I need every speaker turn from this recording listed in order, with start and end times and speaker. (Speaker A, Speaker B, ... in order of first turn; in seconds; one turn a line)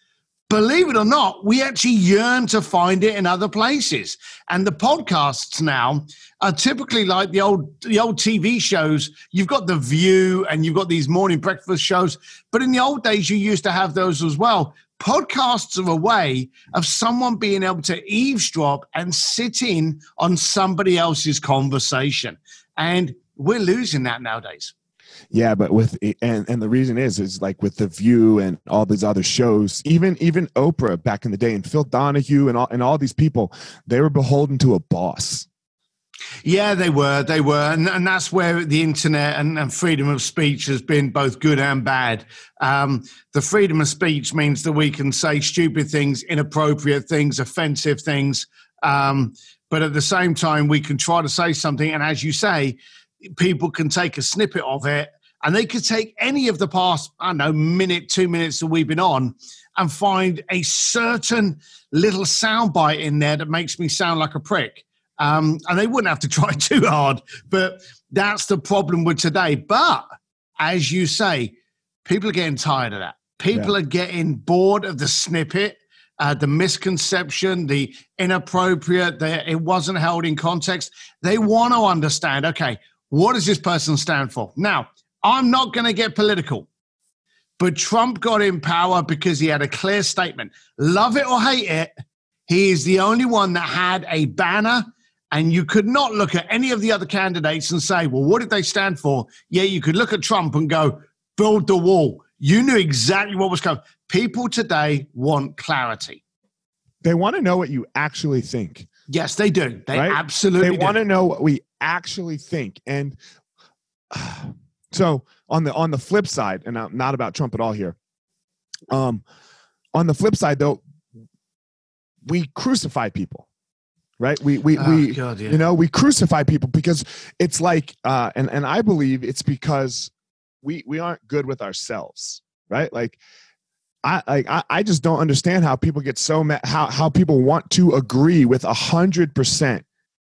Speaker A: 0.5-24.7
Speaker B: 25.3-35.5
Speaker A: 36.4-70.0
Speaker A: 70.6-71.5
Speaker A: 72.0-86.7
Speaker A: 87.6-91.9
Speaker A: 92.5-106.2
Speaker B: 107.0-108.9
Speaker A: 109.1-111.0
Speaker B: 109.9-113.2
Speaker B: 114.1-118.0
Speaker B: 118.9-119.2
Speaker B: 119.9-120.8
Speaker B: 122.2-123.5
Speaker B: 124.2-130.1
Speaker A: 124.8-125.6
Speaker B: 130.6-133.2
Speaker B: 134.0-139.8